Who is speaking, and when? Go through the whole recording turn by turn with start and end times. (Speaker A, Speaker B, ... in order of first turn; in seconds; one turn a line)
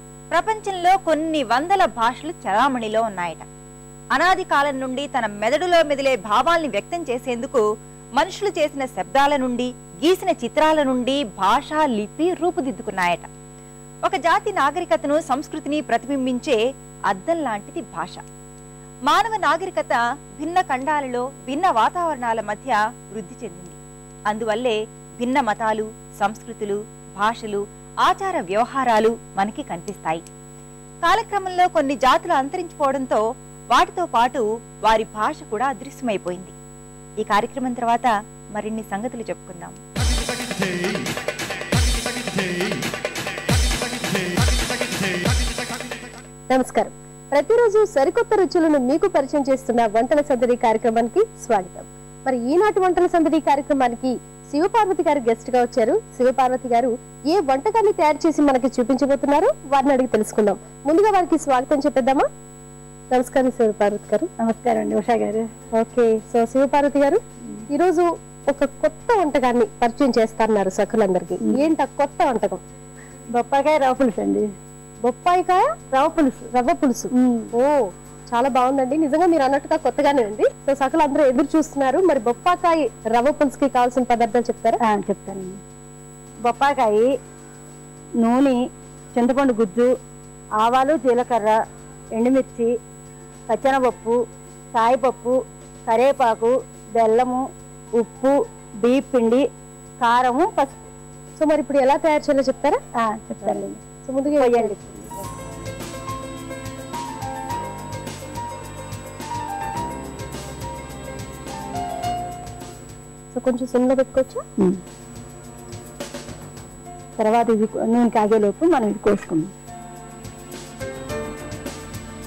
Speaker A: 0.3-3.4
Speaker A: 4.1-7.6
Speaker A: 8.2-13.3
Speaker A: 14.0-16.6
Speaker A: 17.1-18.2
Speaker A: 19.1-23.8
Speaker A: 24.3-30.2
Speaker A: 31.0-33.2
Speaker A: 33.7-36.5
Speaker A: 37.2-39.8
Speaker B: 46.5-62.2
Speaker B: 63.1-64.3
Speaker C: 64.4-65.5
Speaker B: 65.8-67.2
Speaker B: 67.7-72.6
Speaker C: 73.3-74.5
Speaker B: 75.0-75.9
Speaker C: 75.9-76.5
Speaker B: 76.5-77.7
Speaker C: 77.1-77.5
Speaker B: 78.3-84.8
Speaker C: 84.8-85.6
Speaker C: 86.4-87.0
Speaker C: 88.2-88.6
Speaker C: 89.1-89.9
Speaker C: 90.6-91.5
Speaker C: 92.2-92.7
Speaker C: 93.5-94.2
Speaker C: 94.7-97.4
Speaker C: 98.0-99.4
Speaker C: 100.0-100.8
Speaker B: 101.4-102.8
Speaker C: 103.0-103.8
Speaker B: 103.4-104.7
Speaker C: 104.4-105.1
Speaker B: 113.3-114.4
Speaker C: 117.2-119.5